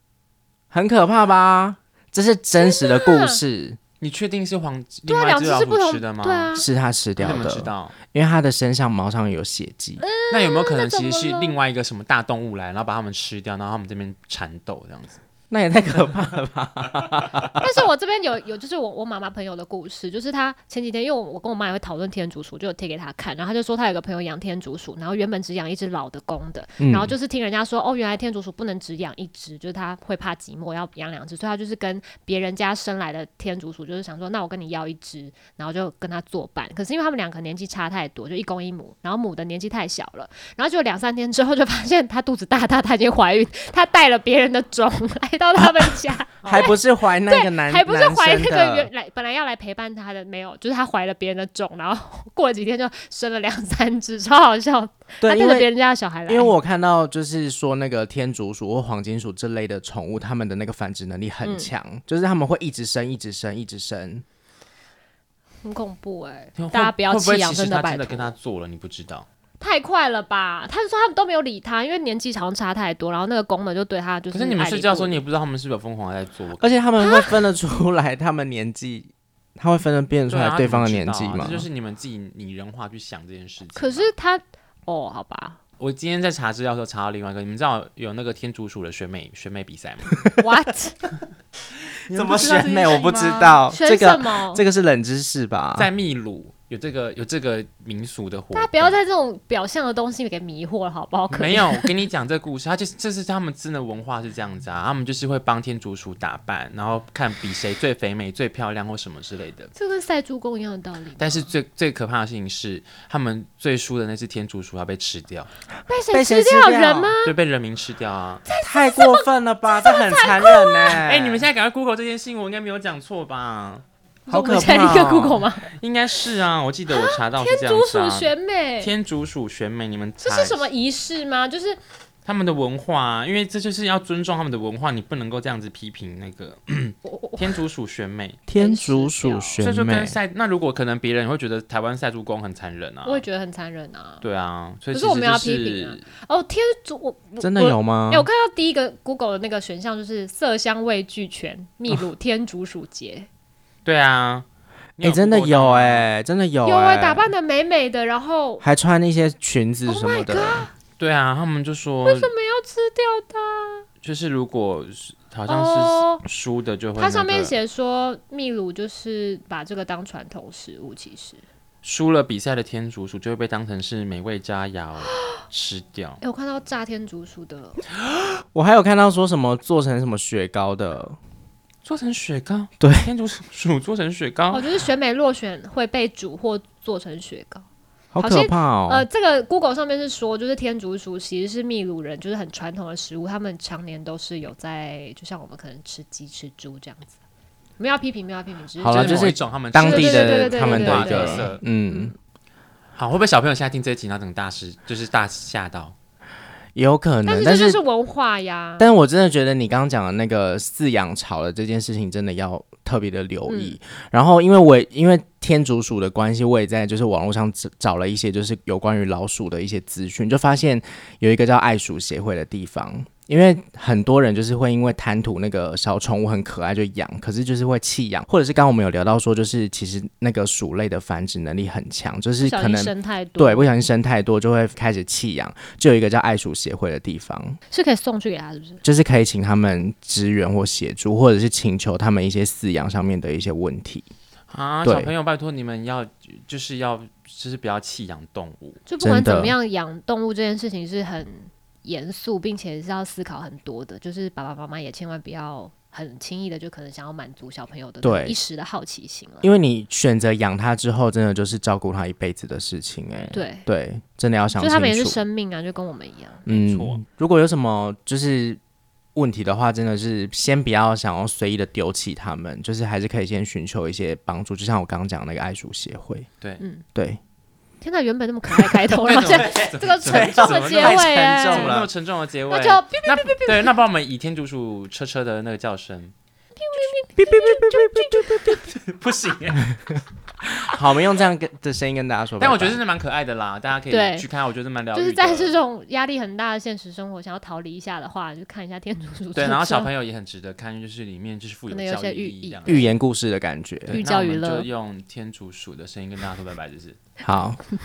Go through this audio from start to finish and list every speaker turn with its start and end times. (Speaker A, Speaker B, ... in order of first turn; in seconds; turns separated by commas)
Speaker A: 0.7-3.8, Speaker B: 2.5-3.4, Speaker C: 4.0-6.6, Speaker B: 5.1-6.7, Speaker A: 6.6-10.0, Speaker C: 7.2-8.0, Speaker B: 10.0-11.6, Speaker C: 10.3-15.2, Speaker A: 15.5-17.8, Speaker B: 17.6-56.5, Speaker A: 26.8-27.1, Speaker A: 46.4-48.9, Speaker A: 55.2-55.7, Speaker A: 56.3-64.2, Speaker B: 61.4-61.7, Speaker B: 65.6-68.3, Speaker C: 66.6-69.3, Speaker B: 69.6-75.2, Speaker C: 74.3-76.6, Speaker A: 76.6-81.7, Speaker B: 77.0-77.5, Speaker C: 80.3-84.1, Speaker B: 83.8-85.6, Speaker C: 85.8-90.3, Speaker B: 90.4-91.0, Speaker C: 92.0-93.6, Speaker A: 92.1-95.9, Speaker B: 93.7-94.6, Speaker C: 95.8-99.0, Speaker B: 98.5-101.9, Speaker C: 101.3-109.7, Speaker B: 109.8-111.5, Speaker C: 111.2-115.5, Speaker B: 115.9-117.3, Speaker A: 116.1-117.1, Speaker C: 117.2-118.4, Speaker B: 118.5-121.0, Speaker A: 118.6-121.5, Speaker C: 120.9-123.8, Speaker B: 124.3-125.7, Speaker A: 124.3-125.4, Speaker C: 125.6-130.7, Speaker B: 126.9-128.9, Speaker B: 130.2-131.8, Speaker C: 132.2-138.4, Speaker B: 137.1-137.6, Speaker A: 138.5-140.2, Speaker B: 138.6-139.6, Speaker C: 139.6-143.2, Speaker B: 143.1-144.2, Speaker C: 144.2-146.1, Speaker B: 144.9-153.3, Speaker A: 147.4-148.3, Speaker C: 153.8-154.5, Speaker C: 155.0-156.1, Speaker A: 155.0-157.3, Speaker B: 156.6-158.6, Speaker A: 158.6-160.7, Speaker B: 159.9-160.7, Speaker C: 161.0-162.3, Speaker B: 162.0-163.9, Speaker C: 164.0-167.6, Speaker B: 165.5-166.2, Speaker B: 167.0-171.4, Speaker C: 171.8-176.2, Speaker B: 176.2-177.8, Speaker A: 178.4-181.2, Speaker C: 181.8-184.7, Speaker A: 182.8-183.1, Speaker B: 184.5-187.6, Speaker A: 188.1-189.1, Speaker B: 188.2-197.2, Speaker B: 197.8-202.1, Speaker A: 198.8-202.1, Speaker C: 198.9-201.6, Speaker C: 202.9-205.9, Speaker A: 206.8-207.8, Speaker B: 207.2-208.9, Speaker A: 208.8-237.6, Speaker B: 213.5-213.8, Speaker B: 232.4-233.7, Speaker B: 237.7-238.8, Speaker A: 238.8-244.1, Speaker C: 244.5-248.8, Speaker A: 244.8-245.1, Speaker B: 248.9-259.5, Speaker A: 249.0-249.6, Speaker A: 258.0-258.4, Speaker A: 259.4-265.2, Speaker B: 263.3-263.7, Speaker B: 264.6-266.5, Speaker C: 266.5-267.0, Speaker A: 266.5-268.6, Speaker A: 269.1-276.3, Speaker A: 276.9-277.2, Speaker B: 277.8-281.8, Speaker C: 279.0-286.1, Speaker A: 280.1-281.9, Speaker B: 282.5-283.7, Speaker B: 286.6-288.6, Speaker A: 287.2-288.6, Speaker C: 288.6-289.8, Speaker A: 290.6-292.8, Speaker C: 292.4-295.6, Speaker B: 293.9-294.3, Speaker B: 294.9-299.9, Speaker C: 299.4-302.9, Speaker B: 301.7-302.9, Speaker A: 302.6-304.0, Speaker C: 303.9-307.0, Speaker B: 303.9-304.7, Speaker A: 307.2-307.6